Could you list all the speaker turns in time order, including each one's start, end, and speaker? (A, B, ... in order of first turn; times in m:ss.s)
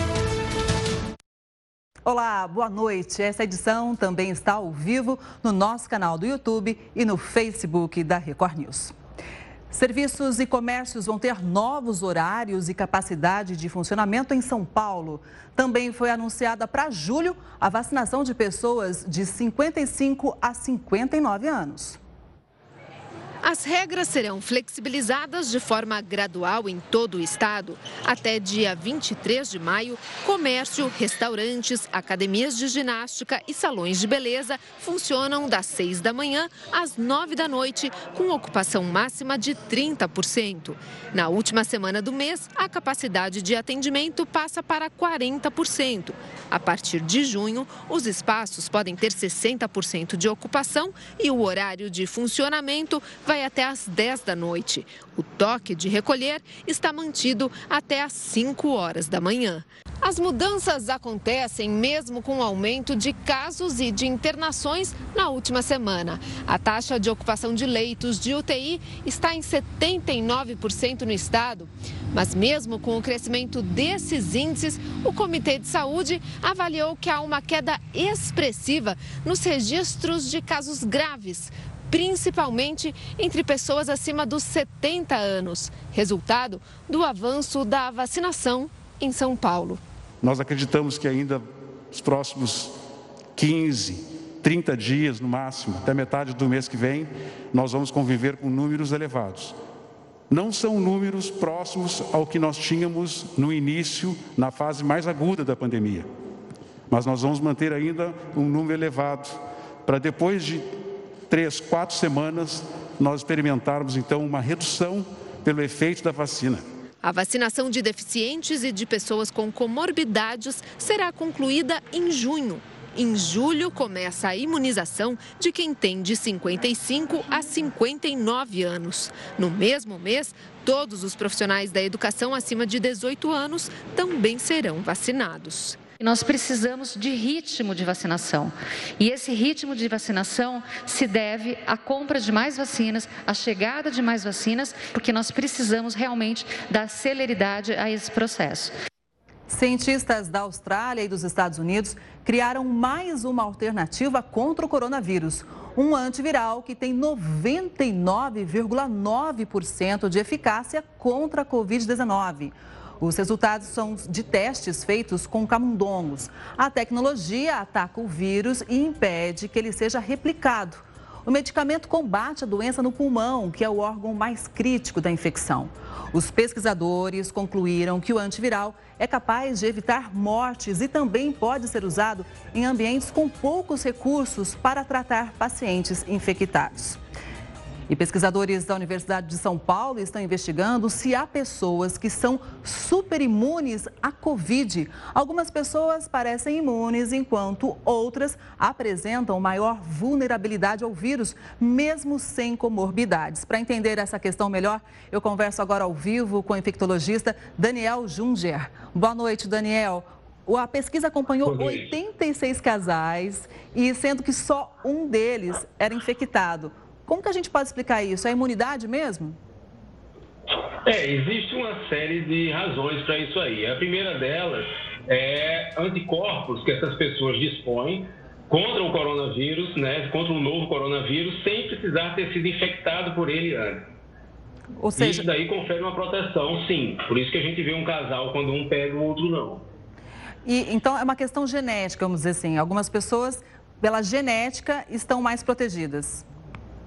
0:02.0-0:09.0 A
0:09.7-0:22.0 A
0:23.4-1:29.8 B
1:30.2-1:32.7 C
1:33.4-1:39.6 C
1:40.3-1:46.1 C
1:46.9-1:50.7 C
1:51.3-1:56.6 C
1:57.0-2:15.8 B
2:16.0-2:28.7 D
2:29.5-3:07.0 A
3:07.9-3:39.4 A
3:31.4-3:31.9 E
3:40.8-3:53.9 E
3:54.8-3:55.3 A
3:55.0-3:59.6 E
4:00.4-4:06.3 A